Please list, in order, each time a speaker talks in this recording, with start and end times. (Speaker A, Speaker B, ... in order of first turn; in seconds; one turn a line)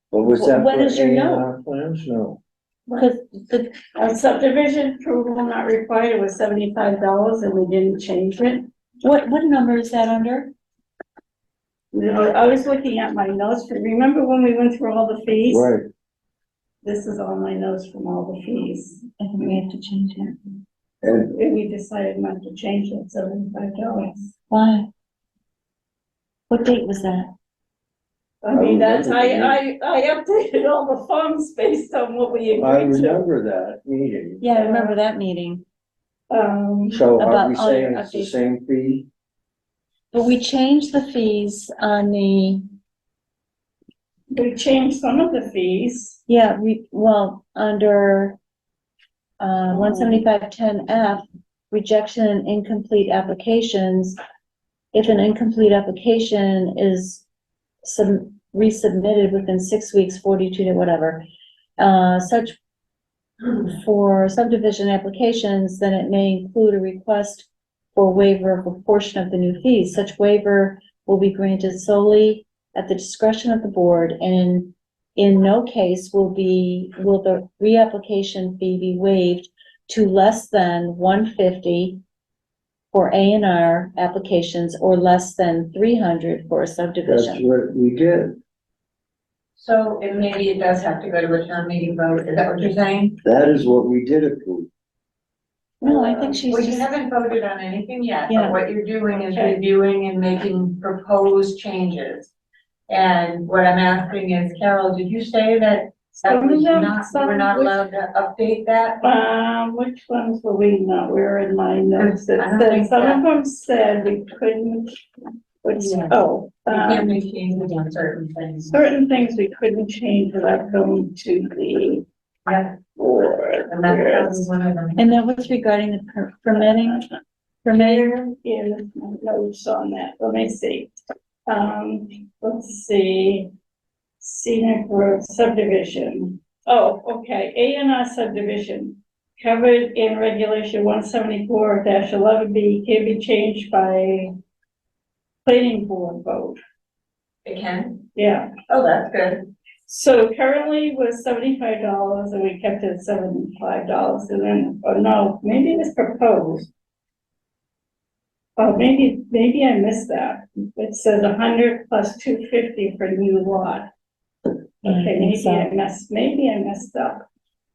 Speaker A: 0.1-2.4
Speaker B: 0.3-1.5
Speaker B: 3.0-3.8
Speaker C: 4.0-8.7
Speaker B: 9.0-10.5
Speaker C: 11.9-15.7
Speaker A: 15.5-15.9
Speaker C: 16.8-19.6
Speaker B: 19.2-20.4
Speaker A: 21.0-21.3
Speaker C: 21.3-24.3
Speaker B: 24.5-24.9
Speaker B: 26.5-27.3
Speaker C: 28.4-33.2
Speaker A: 28.5-29.6
Speaker A: 32.5-34.4
Speaker B: 34.4-35.6
Speaker C: 34.5-35.0
Speaker C: 36.3-37.0
Speaker A: 36.9-39.1
Speaker B: 37.2-38.4
Speaker B: 40.1-42.6
Speaker C: 44.3-46.2
Speaker B: 46.3-48.4
Speaker B: 49.4-54.2
Speaker C: 49.8-50.2
Speaker B: 54.9-57.2
Speaker B: 57.8-61.2
Speaker B: 61.8-62.6
Speaker B: 63.6-82.0
Speaker B: 82.9-87.5
Speaker A: 87.1-88.4
Speaker D: 89.6-93.2
Speaker A: 93.2-94.7
Speaker B: 95.8-96.9
Speaker D: 95.8-102.3
Speaker B: 98.3-98.6
Speaker C: 99.3-99.6
Speaker D: 102.9-109.0
Speaker C: 106.2-107.8
Speaker C: 109.0-114.9
Speaker D: 112.0-113.3
Speaker C: 115.6-117.1
Speaker D: 115.8-118.9
Speaker C: 118.7-122.0
Speaker D: 122.5-122.8
Speaker C: 122.9-124.5
Speaker D: 123.7-125.1
Speaker B: 125.0-127.1
Speaker B: 127.7-128.2
Speaker C: 127.7-130.9
Speaker C: 131.5-133.5
Speaker C: 134.2-144.3
Speaker C: 145.4-146.6
Speaker D: 147.4-148.1
Speaker C: 148.2-148.6
Speaker D: 148.7-149.5
Speaker C: 149.9-156.7
Speaker C: 158.6-163.9
Speaker C: 164.8-167.2
Speaker B: 164.8-165.7